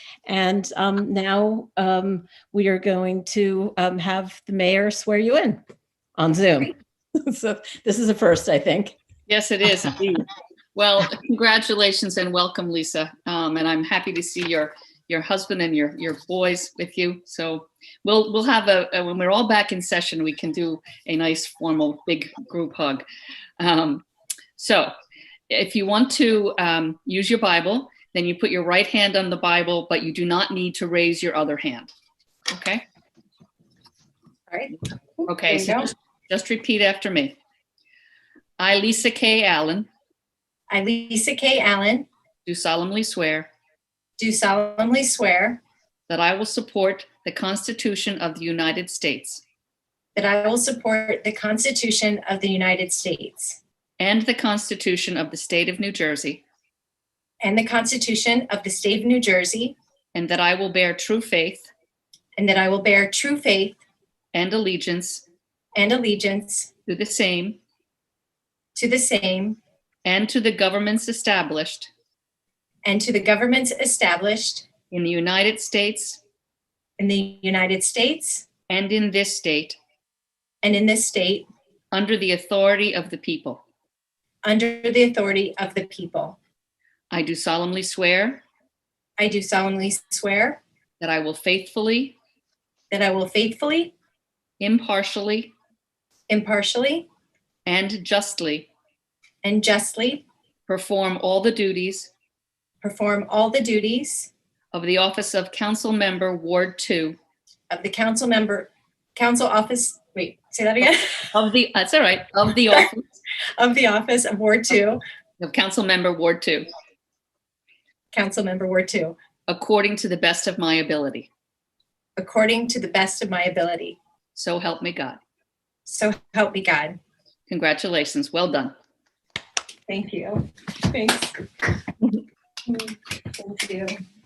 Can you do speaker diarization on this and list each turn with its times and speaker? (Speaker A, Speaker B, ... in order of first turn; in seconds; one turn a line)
Speaker A: 0.3-5.6
Speaker A: 6.2-8.9
Speaker B: 9.3-23.0
Speaker B: 23.6-24.0
Speaker B: 24.6-24.9
Speaker B: 25.5-31.9
Speaker B: 32.5-32.8
Speaker C: 34.5-35.9
Speaker B: 35.3-37.4
Speaker B: 38.6-39.9
Speaker C: 40.7-42.1
Speaker B: 42.5-43.5
Speaker C: 44.2-45.6
Speaker B: 46.1-49.4
Speaker C: 50.1-53.6
Speaker B: 54.0-56.4
Speaker C: 57.4-59.8
Speaker B: 60.1-61.7
Speaker C: 62.4-63.8
Speaker B: 64.3-65.2
Speaker C: 65.8-66.7
Speaker B: 66.9-67.6
Speaker C: 68.7-69.6
Speaker B: 70.0-71.9
Speaker C: 72.8-74.7
Speaker B: 74.9-76.2
Speaker C: 77.0-78.5
Speaker B: 78.7-79.8
Speaker C: 80.6-81.5
Speaker B: 81.9-83.6
Speaker C: 84.4-86.4
Speaker B: 87.1-88.4
Speaker C: 89.2-90.6
Speaker B: 91.0-92.2
Speaker C: 92.9-93.9
Speaker B: 94.6-95.5
Speaker C: 96.3-97.1
Speaker B: 97.7-98.7
Speaker C: 99.4-100.2
Speaker B: 100.7-102.1
Speaker C: 102.8-104.3
Speaker B: 104.7-107.2
Speaker C: 107.7-111.3
Speaker B: 111.3-113.0
Speaker C: 113.6-115.0
Speaker B: 115.4-116.7
Speaker C: 118.1-119.2
Speaker B: 119.5-121.3
Speaker C: 122.2-124.0
Speaker B: 124.3-125.2
Speaker C: 125.8-127.0
Speaker B: 127.5-128.7
Speaker C: 129.9-131.3
Speaker C: 132.7-133.9